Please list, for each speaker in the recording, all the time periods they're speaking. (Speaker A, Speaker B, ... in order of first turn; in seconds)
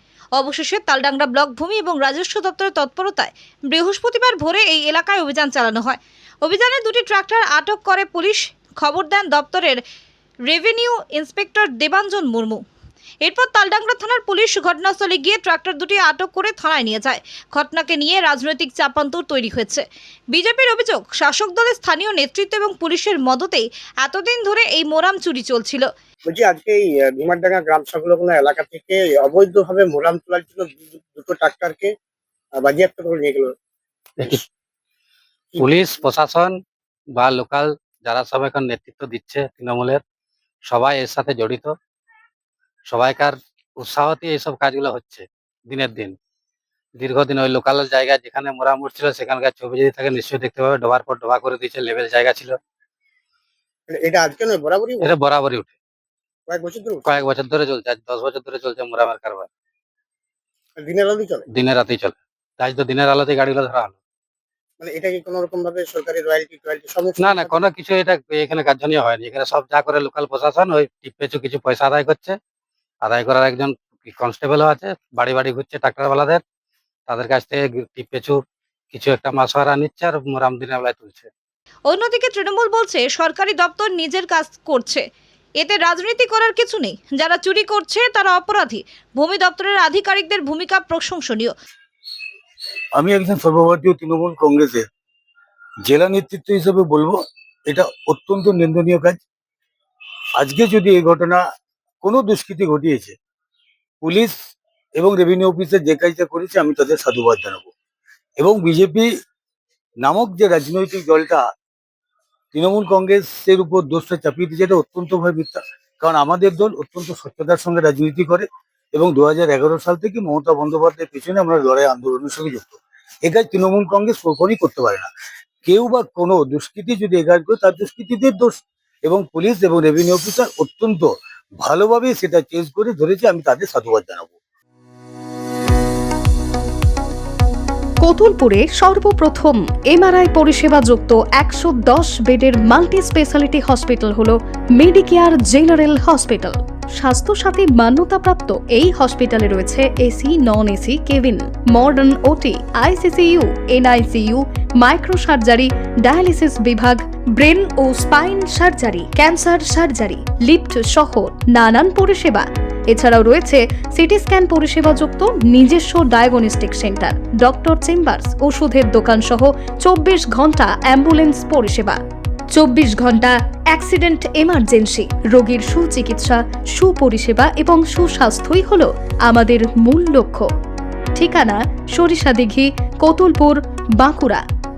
Speaker A: 0.4-9.8, 10.5-12.6, 13.2-25.9, 81.9-85.0, 85.6-91.5
Speaker B: 26.3-31.9, 32.6-33.5, 53.9-55.1, 56.5-57.1, 60.8-61.5, 64.8-67.6
Speaker C: 35.6-36.5, 37.2-40.0, 40.7-41.7, 42.9-46.2, 47.0-52.6, 55.0-55.7, 57.1-59.5, 61.6-64.0, 67.2-72.4, 73.0-76.4, 77.1-78.4, 78.9-81.3
Speaker D: 93.0-94.8, 95.9-99.2, 100.4-101.4, 102.0-103.2, 104.0-104.3, 105.0-107.7, 108.4-109.1, 110.0-111.4, 112.5-125.1, 125.7-134.3
Speaker E: 138.0-172.0, 172.6-180.5, 181.2-184.4